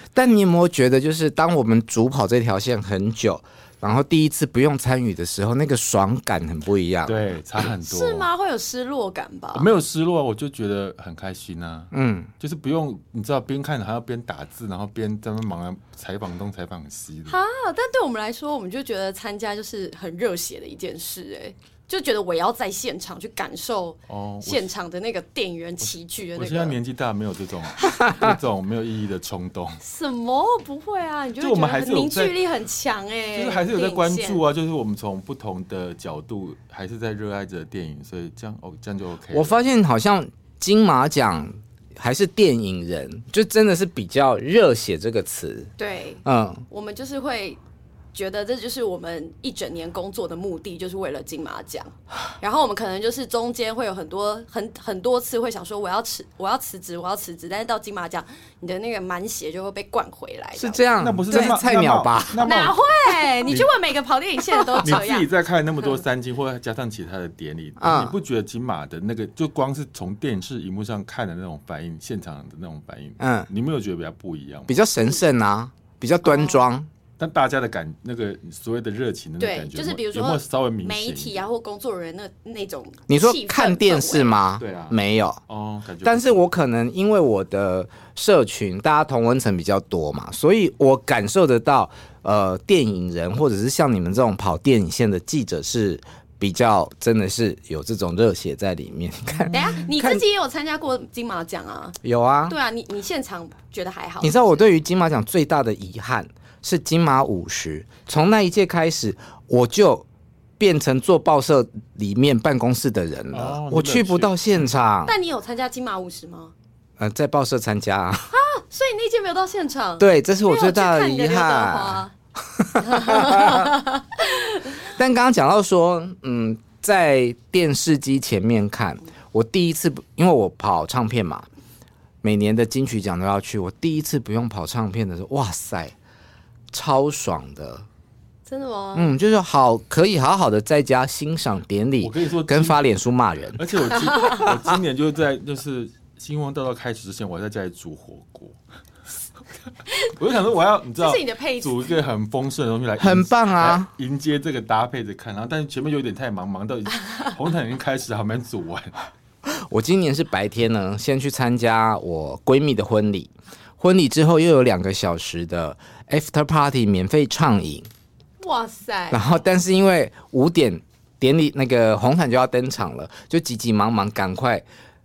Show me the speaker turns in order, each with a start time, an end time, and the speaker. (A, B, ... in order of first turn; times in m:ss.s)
0:00.1-0:07.2 A
0:07.1-0:08.3 B
0:07.8-0:09.7 C
0:09.5-0:17.4 B
0:11.9-0:12.3 A
0:17.3-0:26.8 C
0:24.1-0:24.7 B
0:25.8-0:29.8 B
0:29.8-0:34.4 C
0:31.4-0:32.4 B
0:33.3-0:39.6 B
0:39.3-0:45.7 A
0:45.8-0:47.6 C
0:46.2-0:46.6 A
0:48.1-1:01.5 C
1:00.6-1:02.5 A
1:01.0-1:02.8 B
1:02.4-1:05.2 C
1:04.8-1:14.8 B
1:07.8-1:08.1 A
1:13.2-1:13.5 A
1:14.7-1:16.9 A
1:16.2-1:16.6 C
1:17.2-1:21.4 B
1:19.4-1:24.3 C
1:23.1-1:25.4 A
1:24.6-1:25.0 B
1:25.5-1:26.4 B
1:26.0-1:40.2 A
1:39.3-1:39.7 B
1:39.5-1:44.6 C
1:42.0-1:42.6 A
1:44.2-1:50.0 A
1:50.6-1:55.1 A
1:53.3-1:54.4 B
1:55.1-1:56.5 C
1:57.0-1:58.3 A
1:58.3-2:02.1 C
2:00.0-2:02.0 A
2:02.6-2:03.8 A
2:02.8-2:04.7 C
2:04.9-2:11.5 A
2:12.2-2:15.9 A
2:16.7-2:17.8 A
2:18.5-2:19.1 C
2:18.9-2:23.6 A
2:22.0-2:22.8 B
2:23.6-2:28.6 B
2:24.0-2:24.4 C
2:30.1-2:38.9 B
2:31.0-2:31.9 C
2:33.0-2:33.9 A
2:39.4-2:47.9 A
2:48.4-2:49.2 C
2:49.1-2:54.6 A